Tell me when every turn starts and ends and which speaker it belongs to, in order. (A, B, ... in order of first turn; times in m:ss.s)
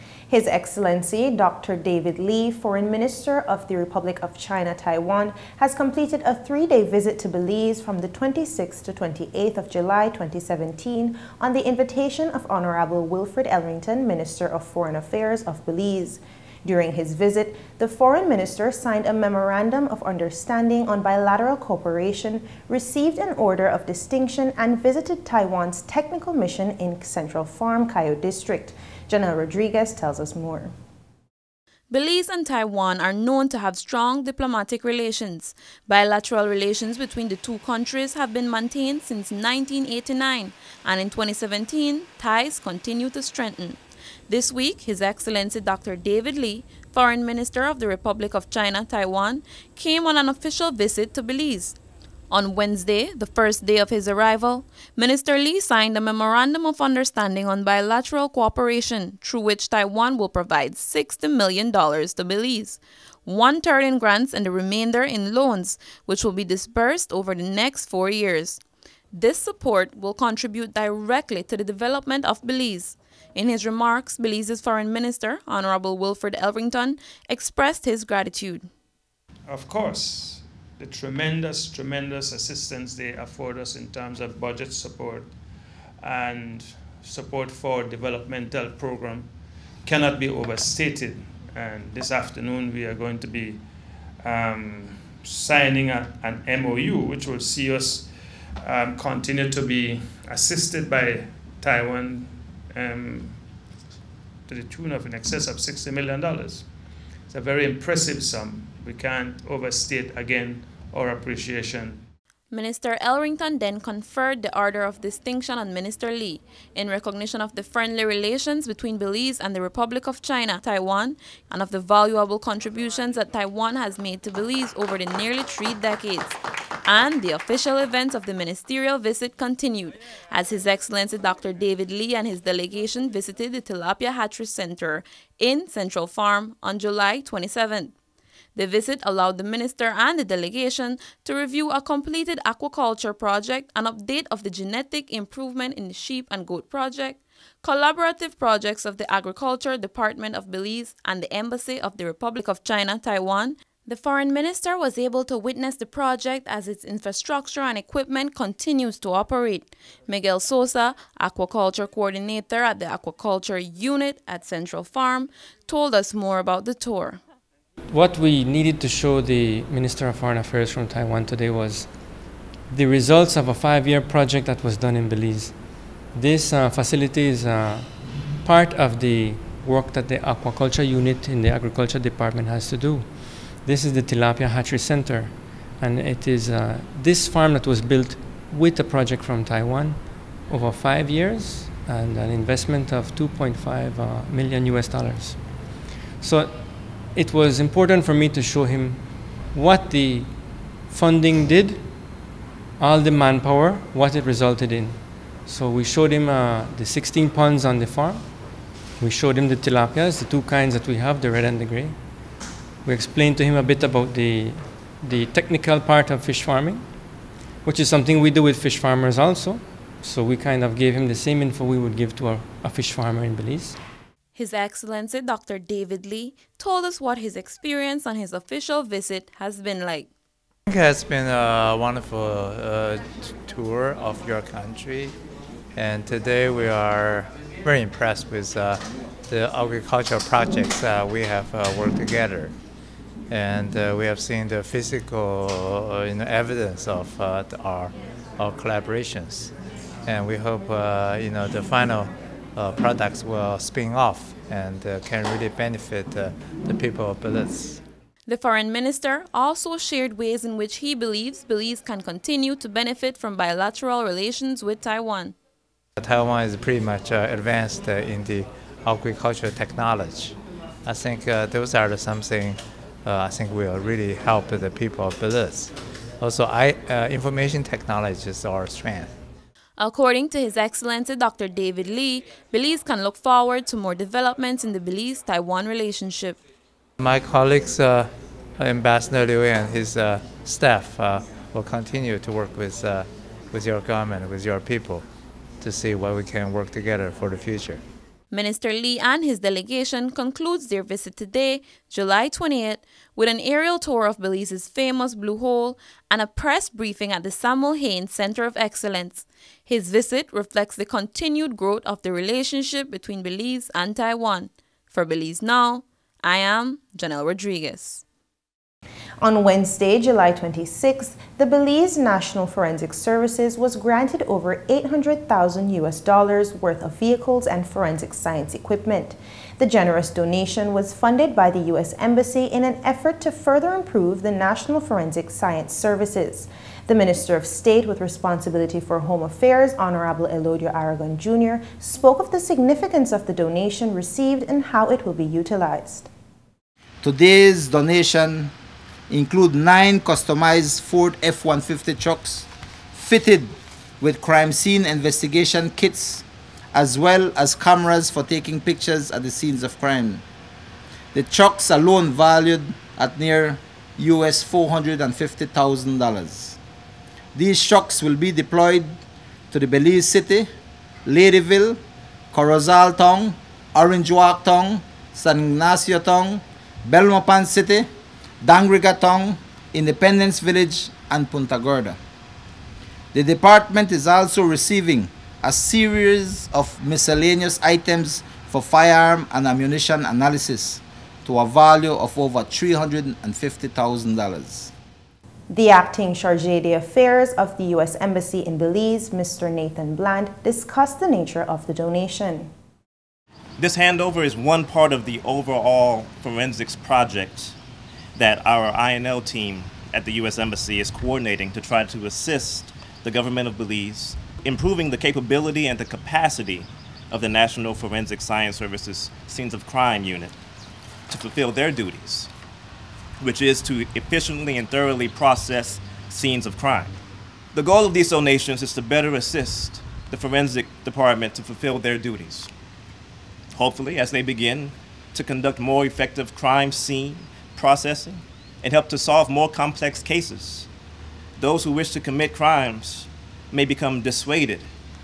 0:00.3-0:30.7 A
0:31.9-0:51.8 B
0:52.3-1:08.6 B
1:09.1-1:18.7 B
1:19.4-1:43.5 C
1:44.4-1:52.1 C
1:52.5-2:17.9 B
2:18.5-2:47.2 B
2:47.9-3:43.8 D
3:44.3-3:50.1 B
3:50.7-3:55.2 E
3:55.7-4:02.6 E
4:03.3-4:09.5 E
4:10.0-4:17.8 E
4:18.2-4:25.4 B
4:26.0-4:39.2 E
4:39.8-4:46.4 B
4:47.0-4:55.0 E
4:55.6-4:57.8 E
4:58.3-5:18.0 B
5:19.2-5:46.1 A
5:47.0-5:48.5 F
5:49.1-6:00.2 F
6:01.1-6:06.6 F
6:07.3-6:09.0 F
6:09.5-6:10.5 F
6:11.0-6:11.8 F
6:12.3-6:17.9 F
6:18.4-6:22.0 F
6:23.1-6:34.7 F
6:35.5-6:42.5 A
6:43.6-6:47.6 G
6:48.1-7:00.4 G
7:01.1-7:02.3 G
7:03.2-7:06.9 G
7:07.5-7:12.5 G
7:13.5-7:20.7 G
7:21.4-7:24.7 G